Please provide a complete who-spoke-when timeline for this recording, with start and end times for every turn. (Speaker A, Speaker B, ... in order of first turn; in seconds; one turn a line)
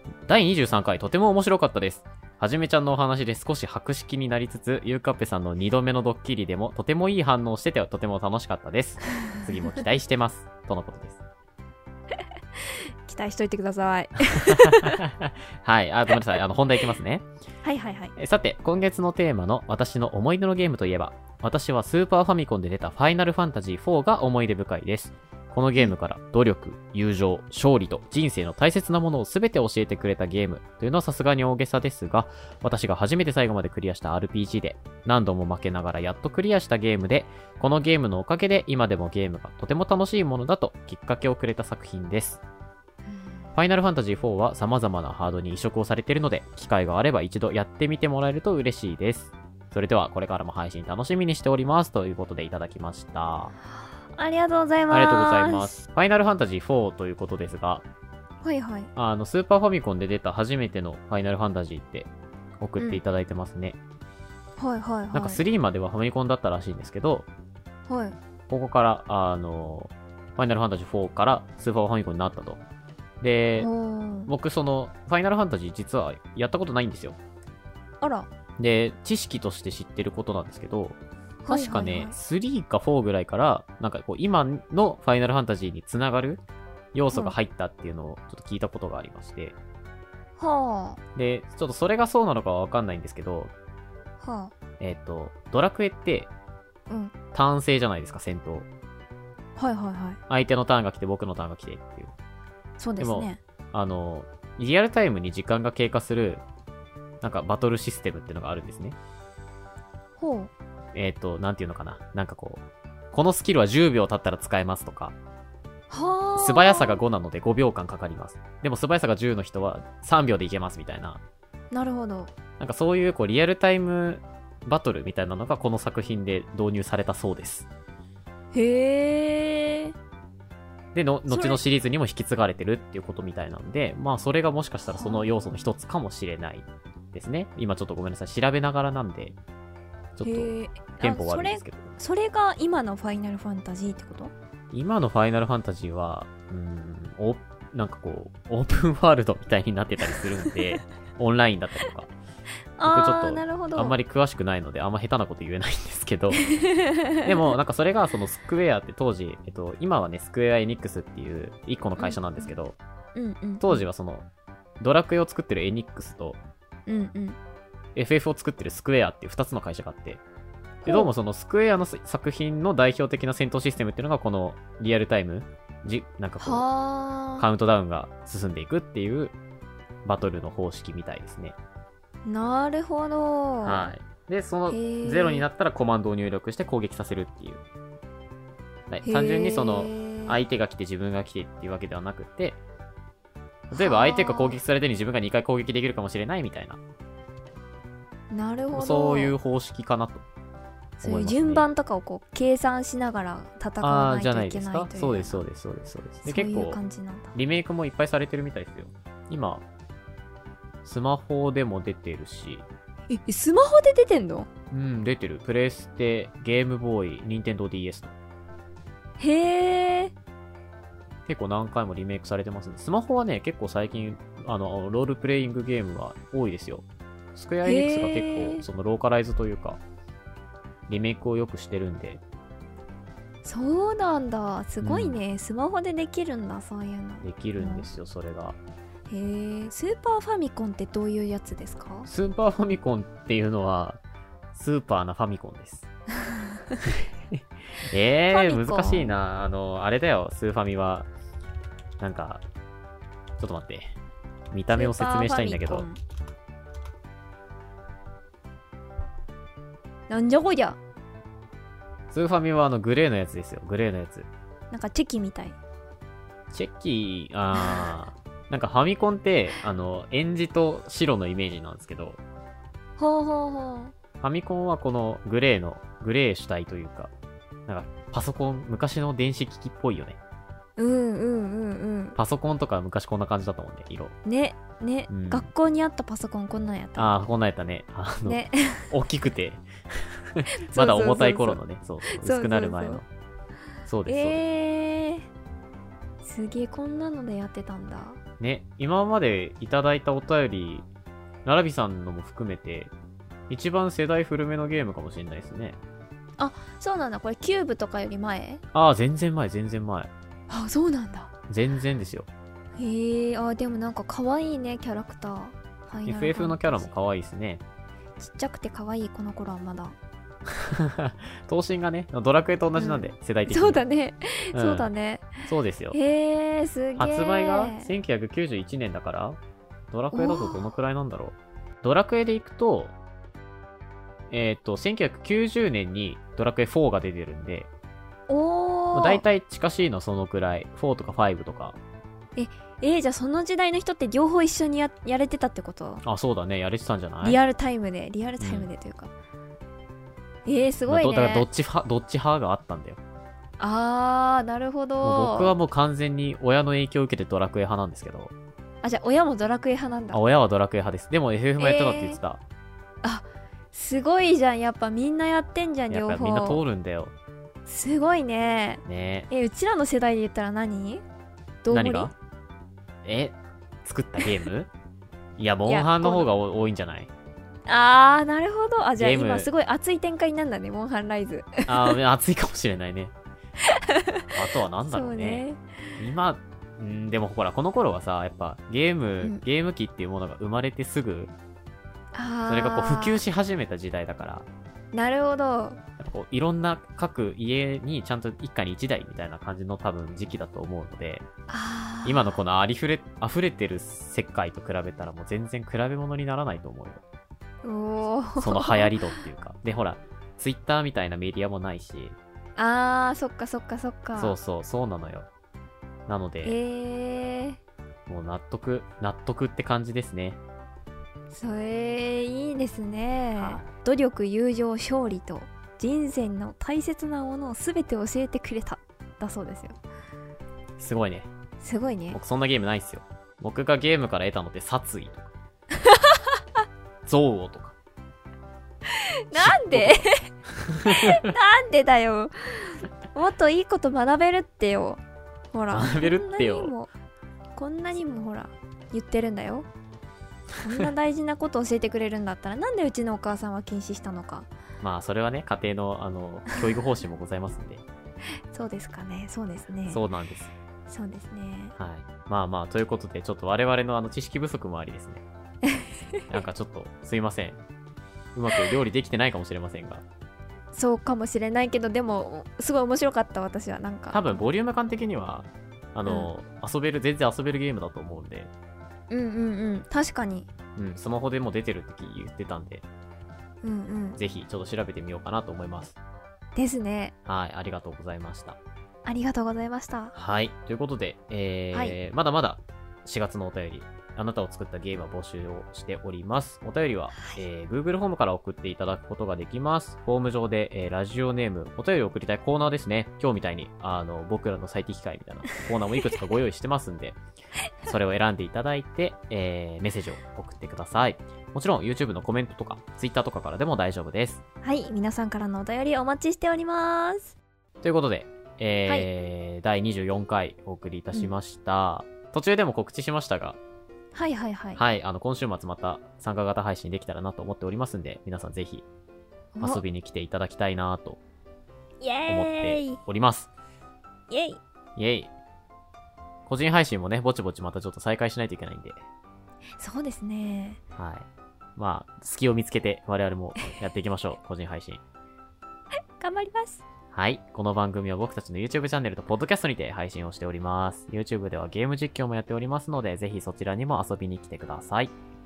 Speaker A: 0.3-11.2
Speaker B: 12.7-15.0
Speaker A: 14.3-17.3
Speaker B: 17.6-18.1
Speaker A: 18.2-42.4
Speaker B: 43.1-43.5
Speaker A: 43.5-53.5
Speaker B: 54.2-55.8
Speaker A: 54.9-57.9
Speaker B: 58.4-58.9
Speaker A: 59.0-62.1
Speaker A: 62.6-63.8
Speaker B: 64.6-65.4
Speaker A: 65.1-67.3
Speaker B: 67.9-68.2
Speaker A: 68.5-72.6
Speaker A: 73.2-73.7
Speaker B: 73.6-74.3
Speaker A: 74.3-77.2
Speaker B: 78.0-78.3
Speaker A: 78.6-81.0
Speaker B: 81.4-82.2
Speaker A: 81.5-86.4
Speaker A: 86.9-89.6
Speaker B: 87.1-87.4
Speaker B: 90.4-91.0
Speaker A: 91.2-93.5
Speaker B: 94.2-94.5
Speaker A: 94.8-96.3
Speaker B: 96.9-97.1
Speaker A: 97.3-98.7
Speaker B: 99.6-100.2
Speaker A: 100.3-102.1
Speaker B: 102.8-103.4
Speaker A: 103.0-106.4
Speaker A: 107.2-109.0
Speaker B: 110.2-110.5
Speaker A: 110.9-115.2
Speaker B: 115.9-117.0
Speaker A: 116.4-121.2
Speaker B: 121.7-122.3
Speaker A: 122.6-127.7
Speaker B: 128.5-129.9
Speaker A: 130.9-139.4
Speaker B: 131.3-131.6
Speaker B: 134.9-135.3
Speaker A: 140.2-141.9
Speaker B: 140.2-144.3
Speaker A: 144.7-152.1
Speaker B: 152.8-154.0
Speaker A: 152.8-156.4
Speaker B: 156.4-157.3
Speaker A: 157.2-162.8
Speaker B: 162.0-162.5
Speaker B: 163.2-163.8
Speaker A: 163.6-164.3
Speaker A: 164.8-166.4
Speaker B: 166.9-167.4
Speaker A: 167.9-170.2
Speaker B: 170.8-171.1
Speaker A: 170.8-176.7
Speaker B: 176.4-177.5
Speaker A: 177.4-179.3
Speaker A: 180.1-181.6
Speaker B: 182.2-183.9
Speaker A: 183.6-187.6
Speaker B: 184.7-185.5
Speaker A: 188.9-192.6
Speaker B: 189.0-190.4
Speaker A: 193.7-196.8
Speaker B: 193.7-194.6
Speaker B: 198.3-199.4
Speaker A: 198.7-200.2
Speaker B: 201.0-205.4
Speaker A: 201.0-201.7
Speaker A: 203.8-206.8
Speaker B: 206.2-207.3
Speaker A: 207.3-209.6
Speaker A: 210.8-212.7
Speaker B: 213.1-214.5
Speaker A: 214.7-218.2
Speaker B: 219.2-220.1
Speaker A: 221.3-229.8
Speaker B: 227.7-228.7
Speaker A: 230.9-232.2
Speaker B: 233.4-237.9
Speaker A: 234.8-235.2
Speaker A: 237.2-238.6
Speaker B: 239.1-242.1
Speaker A: 242.1-244.0
Speaker A: 244.5-245.9
Speaker A: 246.9-251.1
Speaker B: 248.3-249.1
Speaker A: 252.0-252.4
Speaker A: 253.4-253.9
Speaker A: 254.5-255.9
Speaker B: 254.7-256.0
Speaker B: 260.1-260.8
Speaker A: 262.1-264.3
Speaker B: 264.7-265.6
Speaker A: 266.5-272.2
Speaker B: 273.0-273.9
Speaker A: 274.2-277.1
Speaker A: 277.7-280.2
Speaker B: 280.8-282.2
Speaker A: 282.2-284.1
Speaker B: 284.2-287.1
Speaker A: 285.1-285.5
Speaker A: 287.0-293.1
Speaker B: 288.2-288.9
Speaker B: 290.6-293.0
Speaker A: 293.9-294.4
Speaker B: 294.1-295.3
Speaker B: 296.2-298.2
Speaker A: 298.4-300.9
Speaker A: 301.4-302.9
Speaker A: 303.5-305.8
Speaker B: 306.4-308.6
Speaker A: 308.7-310.1
Speaker B: 310.5-311.3
Speaker A: 311.5-312.3
Speaker B: 312.8-316.9
Speaker A: 316.1-317.6
Speaker B: 318.2-320.0
Speaker A: 320.5-323.8
Speaker B: 322.8-327.9
Speaker A: 324.5-324.9
Speaker A: 325.4-326.0
Speaker A: 327.0-329.4
Speaker A: 329.9-332.9
Speaker B: 330.1-330.7
Speaker A: 334.3-337.7
Speaker B: 338.3-339.2
Speaker A: 338.9-341.8
Speaker B: 342.4-346.0
Speaker A: 346.0-347.4
Speaker B: 347.2-349.1
Speaker A: 348.4-348.7
Speaker B: 350.5-351.5
Speaker A: 350.9-353.0
Speaker B: 353.6-355.6
Speaker A: 355.0-358.3
Speaker B: 358.8-360.2
Speaker A: 360.1-362.4
Speaker B: 361.6-362.2
Speaker B: 363.0-366.6
Speaker A: 365.9-367.1
Speaker B: 367.7-371.0
Speaker A: 368.9-369.3
Speaker B: 371.6-372.1
Speaker A: 371.7-372.1
Speaker A: 373.0-374.7
Speaker A: 375.4-377.1
Speaker B: 375.7-376.3
Speaker B: 377.7-381.7
Speaker A: 379.0-379.5
Speaker A: 381.7-383.1
Speaker A: 384.3-385.4
Speaker B: 384.8-385.6
Speaker A: 386.0-391.3
Speaker B: 392.1-393.2
Speaker A: 392.5-394.5
Speaker B: 394.9-395.8
Speaker A: 396.0-401.3
Speaker B: 401.5-402.4
Speaker A: 402.1-407.0
Speaker B: 407.6-409.0
Speaker A: 408.4-412.2
Speaker B: 412.6-414.4
Speaker A: 414.2-415.3
Speaker A: 416.1-416.6
Speaker B: 416.4-417.6
Speaker A: 418.1-420.4
Speaker B: 421.3-429.8
Speaker A: 423.3-423.6
Speaker A: 430.8-431.3
Speaker B: 431.6-432.2
Speaker A: 432.1-435.3
Speaker B: 435.9-436.2
Speaker A: 437.1-437.8
Speaker B: 438.9-440.3
Speaker A: 439.3-440.0
Speaker A: 440.6-441.2
Speaker B: 440.9-445.0
Speaker B: 445.5-446.9
Speaker A: 445.7-446.7
Speaker B: 447.6-449.7
Speaker B: 450.6-454.5
Speaker A: 454.8-457.8
Speaker B: 458.5-460.0
Speaker A: 459.9-460.5
Speaker B: 460.9-461.8
Speaker A: 461.8-465.2
Speaker B: 465.7-466.2
Speaker A: 466.3-467.6
Speaker A: 468.4-470.0
Speaker B: 470.7-474.4
Speaker A: 474.1-478.5
Speaker B: 479.1-480.5
Speaker A: 480.8-482.9
Speaker B: 483.6-484.2
Speaker A: 484.2-486.0
Speaker B: 486.6-487.1
Speaker A: 487.3-488.6
Speaker B: 489.1-490.1
Speaker A: 490.1-507.2
Speaker A: 507.8-514.4
Speaker B: 514.6-517.4
Speaker A: 517.8-523.6
Speaker B: 524.1-524.8
Speaker A: 524.8-528.9
Speaker B: 529.6-529.8
Speaker A: 529.6-531.2
Speaker B: 532.0-533.0
Speaker A: 532.3-533.5
Speaker B: 534.3-534.6
Speaker A: 535.0-535.3
Speaker A: 536.5-539.0
Speaker B: 539.8-540.8
Speaker A: 541.0-545.0
Speaker B: 546.2-546.8
Speaker A: 547.1-555.1